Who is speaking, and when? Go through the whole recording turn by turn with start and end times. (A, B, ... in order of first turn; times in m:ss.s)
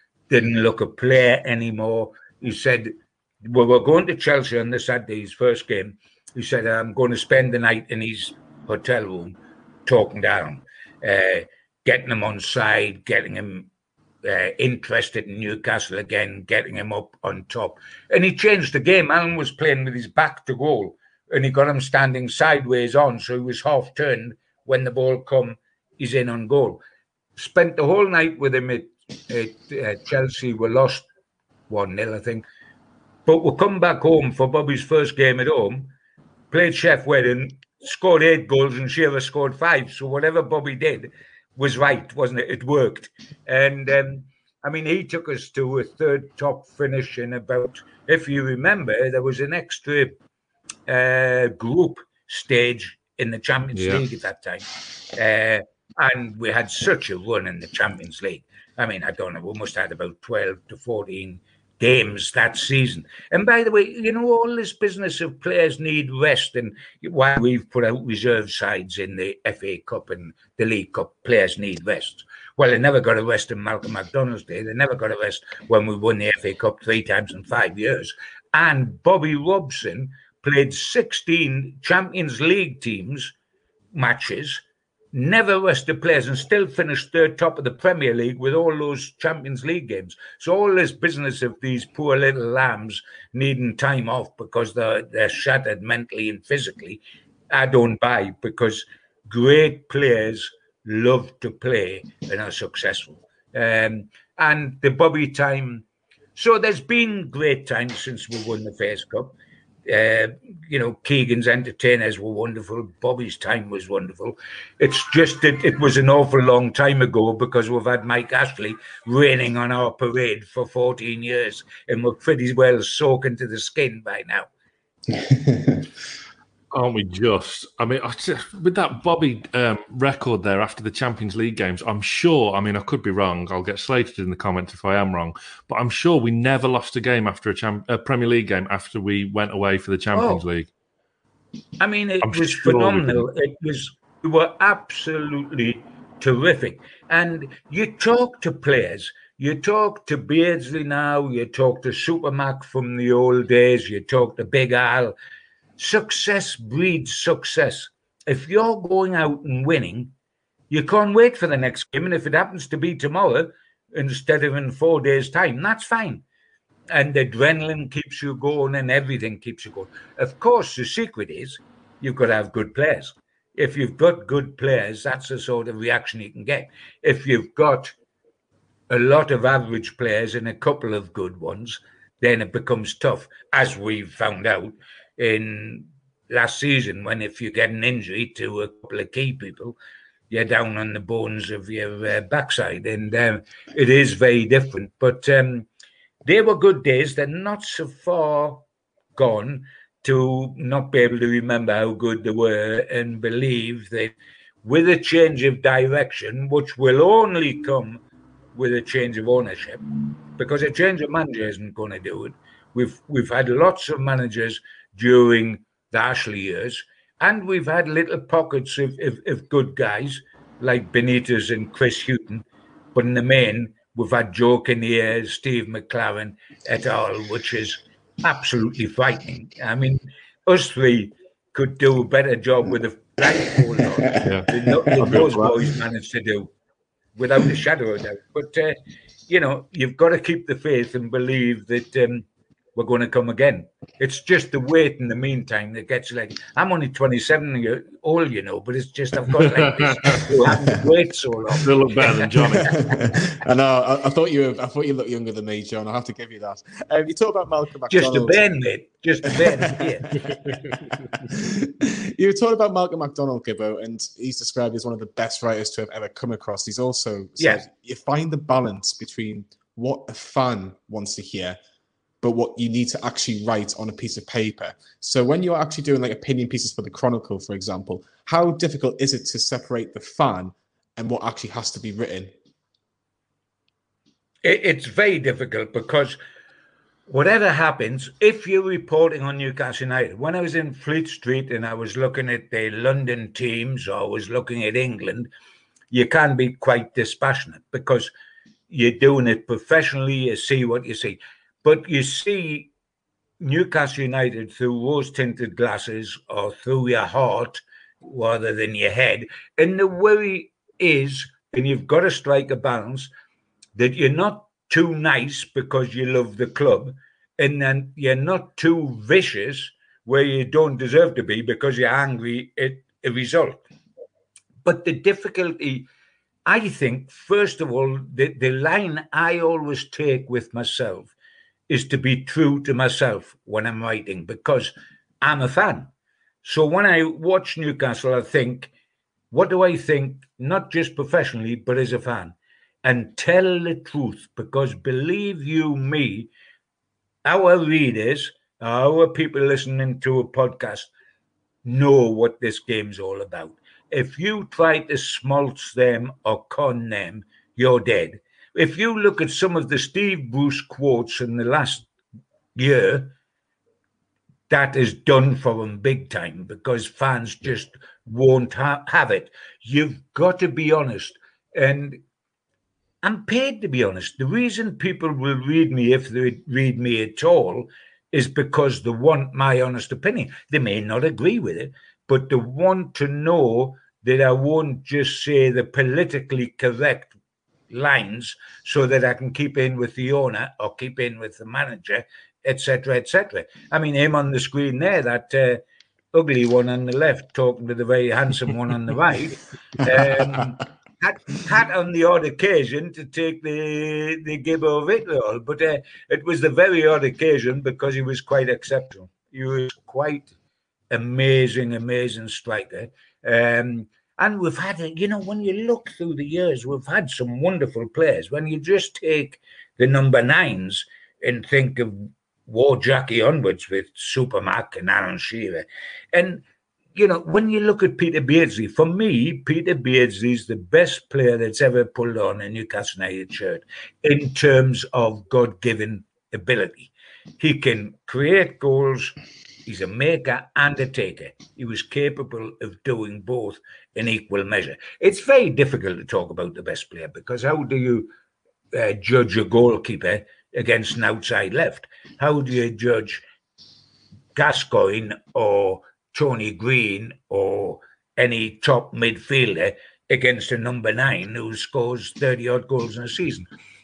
0:00.3-0:13.7 A
0:14.2-0:26.8 A
0:27.4-0:31.1 A
0:31.7-0:32.4 A
0:33.2-0:35.9 A
0:36.5-0:50.2 A
0:50.9-1:23.3 A
0:53.7-0:54.0 B
1:23.9-1:49.3 A
1:49.9-2:04.5 A
2:05.1-2:05.8 C
2:06.7-2:20.7 B
2:20.1-2:20.4 A
2:21.8-2:35.1 A
2:22.2-2:23.2 B
2:35.8-2:40.1 A
2:40.7-2:46.2 A
2:46.9-2:57.9 A
2:58.9-3:09.8 A
3:10.3-3:15.7 A
3:16.2-3:18.6 A
3:19.2-3:28.0 A
3:28.5-3:29.8 A
3:30.4-3:56.5 A
3:54.1-3:55.0 C
3:54.2-3:55.5 B
3:57.2-3:58.8 A
3:59.3-4:12.2 A
4:09.4-4:10.3 B
4:11.6-4:12.9 B
4:12.3-4:18.4 C
4:17.9-4:20.0 A
4:19.3-4:31.6 C
4:20.5-4:21.2 B
4:27.4-4:27.6 A
4:32.2-4:42.3 C
4:44.4-4:46.2 A
4:47.1-4:55.3 A
4:55.9-4:58.1 A
4:58.7-5:02.7 A
5:03.4-5:13.1 A
5:13.8-5:23.6 A
5:24.6-5:25.8 A
5:26.4-5:31.1 A
5:31.7-5:35.9 A
5:36.4-5:38.7 A
5:39.3-5:46.3 A
5:47.2-5:50.9 A
5:51.6-6:01.9 A
6:02.5-6:03.1 A
6:04.5-6:12.0 A
6:13.0-6:27.1 A
6:27.7-6:35.6 A
6:36.1-6:50.3 A
6:50.9-7:19.1 A
7:19.6-7:28.1 A
7:28.7-7:33.2 A
7:34.3-7:43.5 A